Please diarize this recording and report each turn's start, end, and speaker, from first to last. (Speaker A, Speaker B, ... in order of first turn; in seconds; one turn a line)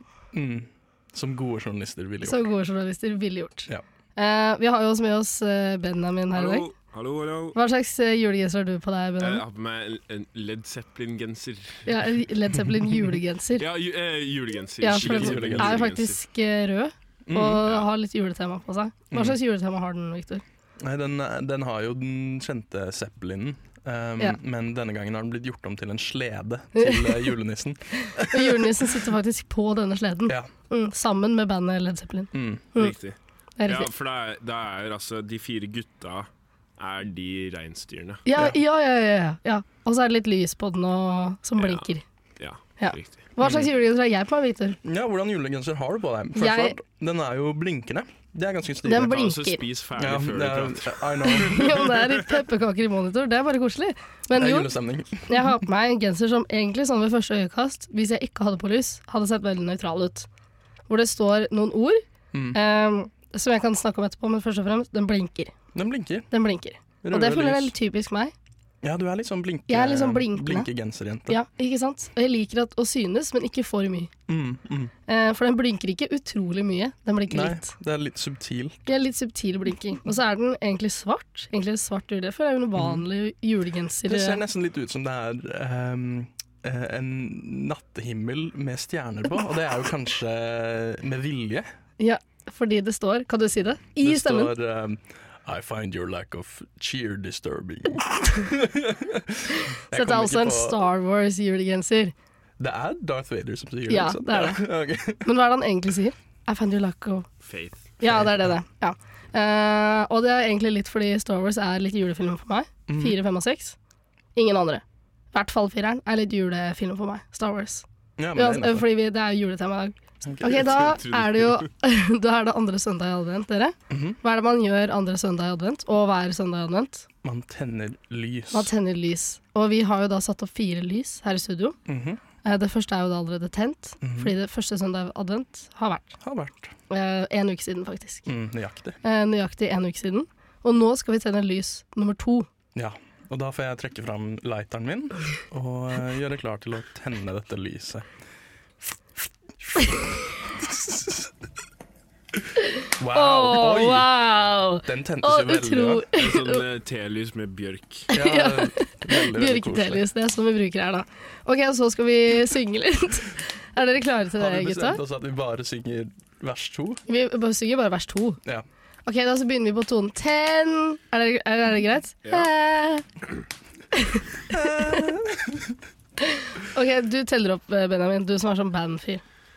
Speaker A: 0.3-2.5
Speaker B: 2.2-6.7
Speaker C: 6.3-7.6
Speaker B: 7.5-9.4
Speaker C: 9.2-12.0
Speaker B: 11.8-13.6
Speaker C: 13.6-16.2
Speaker B: 14.8-20.4
Speaker A: 14.9-15.9
Speaker A: 17.2-17.6
Speaker A: 19.1-19.4
Speaker A: 20.8-29.1
Speaker B: 26.7-27.3
Speaker B: 28.0-32.9
Speaker A: 32.3-32.6
Speaker C: 32.8-38.2
Speaker B: 33.6-33.9
Speaker B: 38.2-42.0
Speaker C: 42.4-43.2
Speaker B: 42.8-44.8
Speaker A: 43.4-43.7
Speaker A: 44.8-49.1
Speaker B: 46.4-46.8
Speaker B: 48.8-49.6
Speaker C: 49.0-52.1
Speaker A: 50.0-51.9
Speaker B: 51.2-54.7
Speaker A: 54.3-55.6
Speaker B: 55.3-60.3
Speaker B: 60.9-65.5
Speaker A: 62.3-62.6
Speaker A: 65.7-66.3
Speaker B: 66.3-68.3
Speaker A: 67.0-67.7
Speaker A: 68.8-71.4
Speaker B: 69.7-70.7
Speaker B: 71.3-74.1
Speaker A: 74.3-74.9
Speaker B: 75.1-77.7
Speaker A: 77.3-78.8
Speaker B: 78.9-84.4
Speaker A: 82.7-83.0
Speaker A: 84.0-91.7
Speaker B: 92.0-94.5
Speaker A: 94.0-100.8
Speaker B: 99.9-102.1
Speaker A: 102.6-105.3
Speaker B: 103.9-104.6
Speaker B: 105.2-107.3
Speaker C: 107.4-107.9
Speaker B: 108.0-113.8
Speaker A: 108.0-108.5
Speaker A: 112.9-113.2
Speaker B: 114.3-117.8
Speaker A: 118.2-118.8
Speaker B: 118.3-127.0
Speaker A: 120.2-120.8
Speaker C: 120.5-121.7
Speaker A: 123.9-124.2
Speaker A: 127.2-128.7
Speaker B: 128.5-131.8
Speaker A: 131.8-132.2
Speaker B: 132.4-136.2
Speaker A: 134.0-134.3
Speaker A: 136.2-136.7
Speaker B: 136.9-138.3
Speaker A: 138.2-139.0
Speaker B: 139.0-142.5
Speaker A: 142.7-148.1
Speaker A: 149.6-151.3
Speaker B: 152.8-156.6
Speaker A: 153.0-154.1
Speaker A: 154.8-156.0
Speaker C: 156.1-158.1
Speaker B: 158.1-165.0
Speaker A: 158.1-160.0
Speaker A: 164.3-167.0
Speaker B: 167.1-168.4
Speaker B: 169.1-173.0
Speaker C: 172.2-172.5
Speaker B: 173.9-175.0
Speaker A: 174.5-175.8
Speaker B: 176.3-179.2